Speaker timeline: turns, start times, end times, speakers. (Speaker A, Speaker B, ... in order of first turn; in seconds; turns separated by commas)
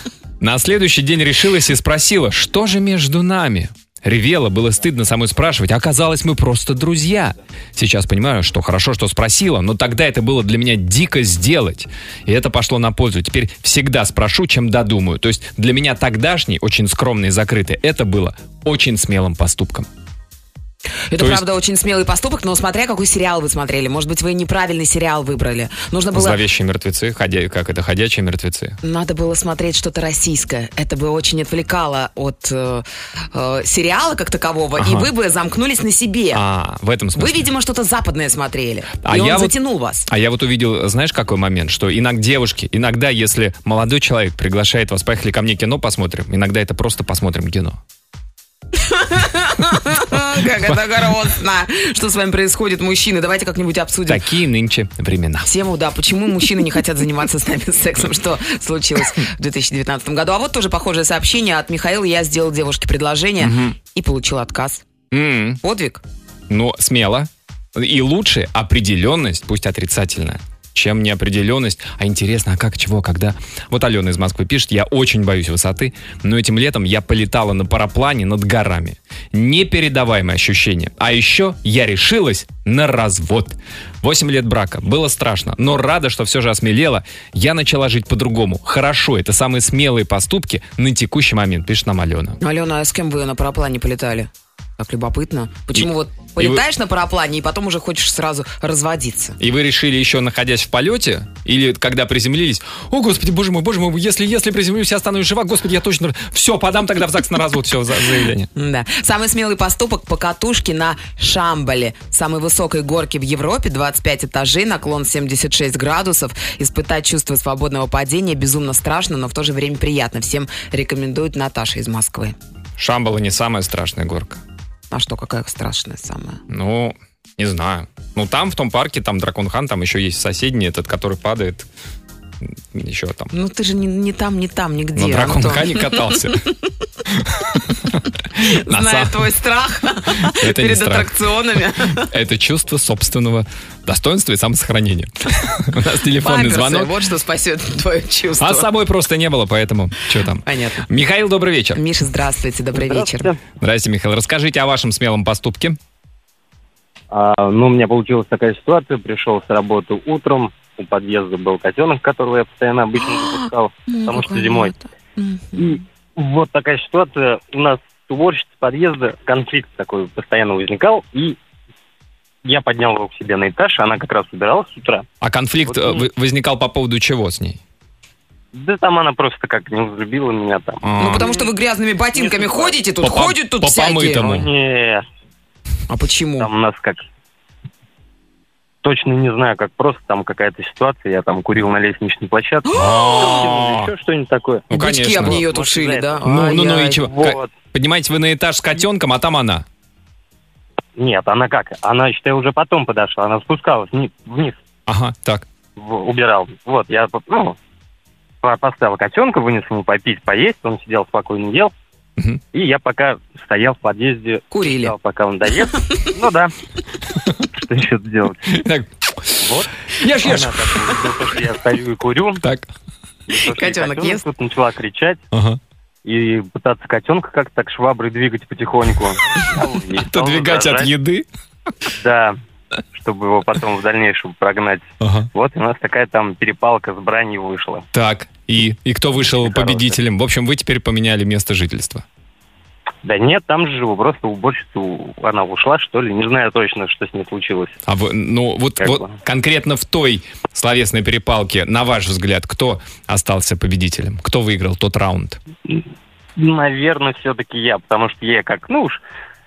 Speaker A: 0.4-19.9, Speaker B: 21.1-26.4, Speaker A: 21.2-21.4, Speaker A: 26.1-28.8, Speaker B: 28.8-36.4, Speaker A: 34.8-35.1, Speaker A: 36.3-37.5, Speaker B: 37.2-40.1, Speaker A: 39.0-39.5, Speaker A: 40.1-47.8, Speaker B: 48.8-54.2, Speaker A: 50.6-51.2, Speaker A: 54.1-55.5, Speaker B: 55.4-64.8, Speaker A: 63.4-63.8, Speaker A: 65.1-65.6, Speaker B: 65.6-66.0, Speaker A: 66.5-92.4, Speaker B: 92.4-99.4, Speaker A: 95.7-96.6, Speaker A: 99.4-108.5, Speaker B: 108.5-122.4, Speaker A: 122.8-124.4, Speaker B: 124.9-126.4, Speaker A: 126.5-131.7, Speaker A: 132.4-133.3, Speaker B: 133.3-136.5, Speaker A: 134.9-136.5, Speaker A: 137.1-139.3, Speaker B: 138.4-142.1, Speaker A: 140.1-141.2, Speaker A: 141.8-146.9, Speaker B: 146.1-148.7, Speaker A: 148.4-151.8, Speaker B: 150.4-150.9, Speaker B: 151.8-153.3, Speaker C: 152.7-153.4, Speaker A: 153.6-155.8, Speaker C: 157.1-164.7, Speaker B: 163.0-165.8, Speaker C: 165.6-171.4, Speaker C: 172.4-175.1, Speaker A: 175.2-177.6, Speaker C: 175.7-176.1, Speaker C: 178.5-181.5, Speaker A: 180.8-181.2, Speaker B: 181.0-184.2, Speaker C: 182.1-182.8, Speaker A: 183.0-184.5, Speaker C: 184.2-185.1, Speaker B: 185.9-186.5, Speaker C: 186.4-187.0, Speaker C: 188.8-196.2, Speaker B: 192.7-193.5, Speaker A: 192.7-193.9, Speaker A: 194.7-195.4, Speaker B: 194.7-197.1, Speaker A: 196.2-199.7, Speaker C: 197.0-197.5, Speaker C: 201.0-204.6, Speaker A: 204.9-205.4, Speaker C: 205.8-207.6, Speaker C: 208.4-211.7, Speaker C: 212.5-216.5, Speaker B: 214.5-214.9, Speaker C: 217.5-218.4, Speaker A: 218.5-220.6, Speaker C: 219.4-222.4, Speaker A: 222.4-222.7, Speaker C: 223.3-225.2, Speaker B: 223.4-224.2, Speaker A: 225.3-225.6, Speaker C: 226.1-230.9, Speaker A: 230.0-231.3, Speaker C: 231.9-232.4, Speaker C: 232.9-237.8, Speaker A: 235.0-235.3, Speaker A: 237.9-242.1, Speaker C: 239.4-239.9, Speaker C: 243.0-247.8, Speaker A: 247.9-255.4, Speaker C: 248.8-249.1, Speaker C: 256.4-259.0